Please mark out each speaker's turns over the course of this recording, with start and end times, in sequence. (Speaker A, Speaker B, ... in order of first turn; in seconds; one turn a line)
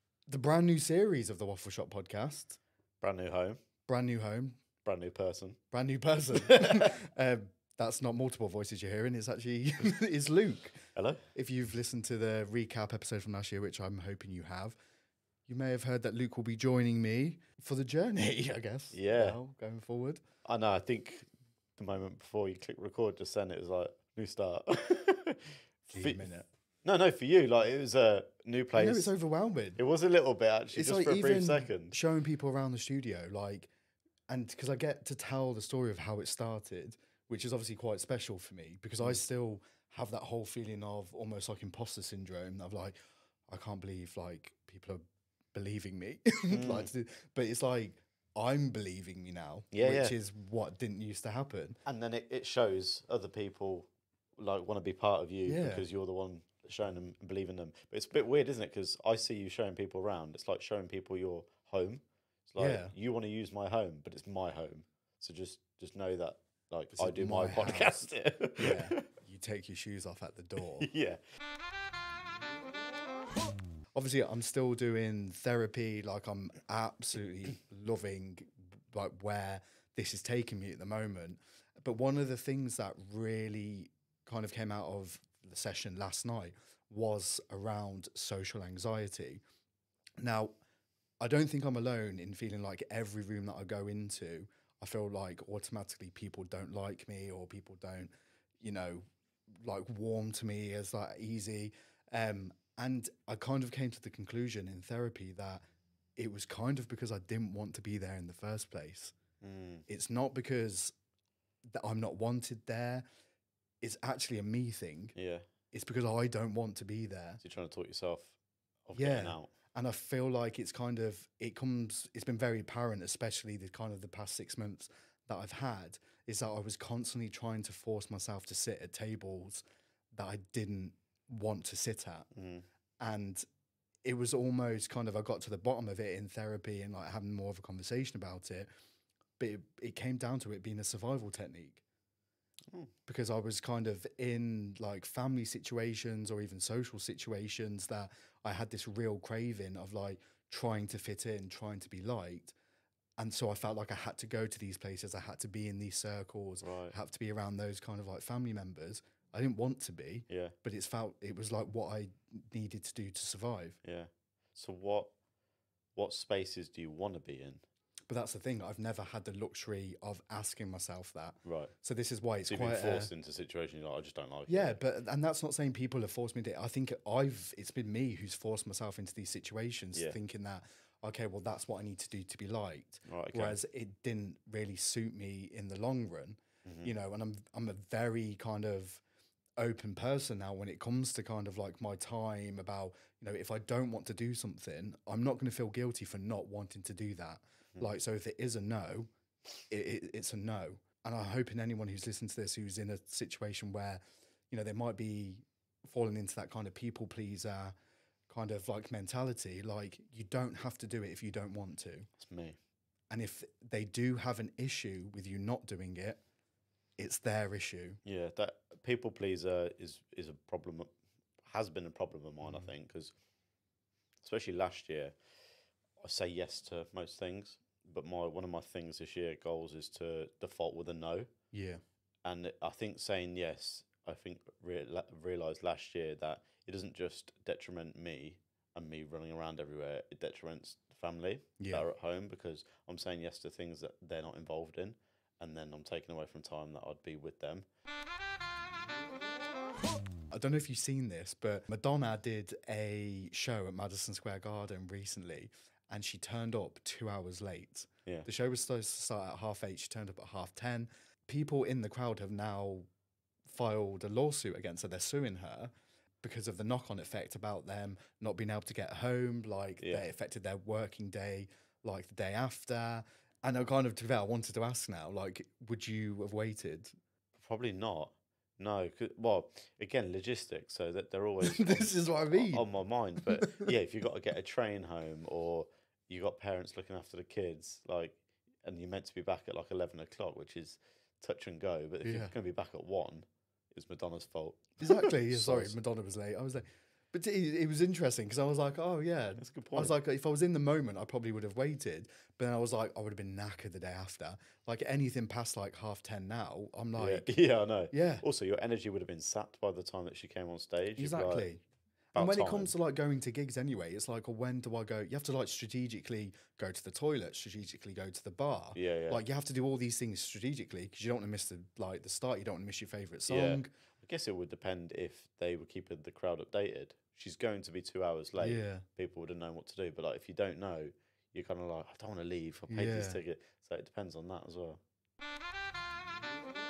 Speaker A: 0.3-2.6
Speaker B: 3.0-3.6
Speaker A: 3.9-4.6
Speaker B: 4.8-5.6
Speaker A: 5.7-14.7
Speaker B: 6.3-6.9
Speaker B: 10.9-11.2
Speaker A: 15.5-20.2
Speaker B: 18.9-19.4
Speaker B: 20.4-26.3
Speaker A: 25.9-26.5
Speaker B: 26.8-29.1
Speaker A: 28.7-29.8
Speaker B: 29.8-31.9
Speaker A: 30.7-33.7
Speaker A: 34.3-43.0
Speaker A: 43.5-45.0
Speaker A: 45.5-51.8
Speaker B: 46.5-46.9
Speaker B: 49.7-50.1
Speaker B: 51.8-69.0
Speaker A: 55.5-55.8
Speaker A: 62.6-62.9
Speaker A: 67.0-70.9
Speaker B: 70.8-71.2
Speaker A: 73.9-89.4
Speaker A: 90.2-90.5
Speaker A: 91.2-99.0
Speaker A: 99.6-105.6
Speaker A: 106.2-109.1
Speaker B: 109.4-109.8
Speaker A: 109.9-110.9
Speaker A: 111.7-113.0
Speaker A: 113.8-115.1
Speaker B: 115.1-115.4
Speaker A: 115.7-117.4
Speaker B: 117.4-119.5
Speaker A: 118.9-132.3
Speaker B: 132.3-132.6
Speaker A: 133.0-133.4
Speaker A: 134.0-138.7
Speaker A: 139.4-141.8
Speaker A: 143.1-152.5
Speaker A: 153.2-163.8
Speaker B: 156.6-156.9
Speaker B: 160.3-160.5
Speaker B: 163.8-165.1
Speaker B: 165.9-167.6
Speaker A: 168.1-173.1
Speaker B: 171.4-171.7
Speaker B: 172.5-174.8
Speaker A: 174.5-189.0
Speaker B: 183.0-183.6
Speaker B: 186.6-186.9
Speaker A: 189.6-199.1
Speaker A: 199.7-207.7
Speaker A: 208.3-212.1
Speaker B: 212.2-212.6
Speaker A: 213.1-216.2
Speaker A: 217.0-218.0
Speaker B: 218.0-220.9
Speaker B: 221.4-223.1
Speaker A: 222.4-222.7
Speaker B: 224.2-225.1
Speaker B: 226.0-231.3
Speaker A: 231.5-231.8
Speaker B: 232.2-247.7
Speaker A: 241.6-241.9
Speaker A: 250.3-262.9
Speaker A: 263.5-265.7
Speaker A: 266.2-276.9
Speaker B: 277.4-295.8
Speaker A: 281.4-282.6
Speaker A: 283.2-283.7
Speaker A: 292.0-292.3
Speaker A: 294.8-307.3
Speaker B: 299.4-299.9
Speaker B: 306.9-311.5
Speaker A: 307.9-308.2
Speaker A: 310.9-311.6
Speaker A: 312.1-323.7
Speaker B: 312.1-312.7
Speaker B: 318.7-319.2
Speaker B: 323.3-334.8
Speaker A: 328.4-328.8
Speaker A: 332.7-333.2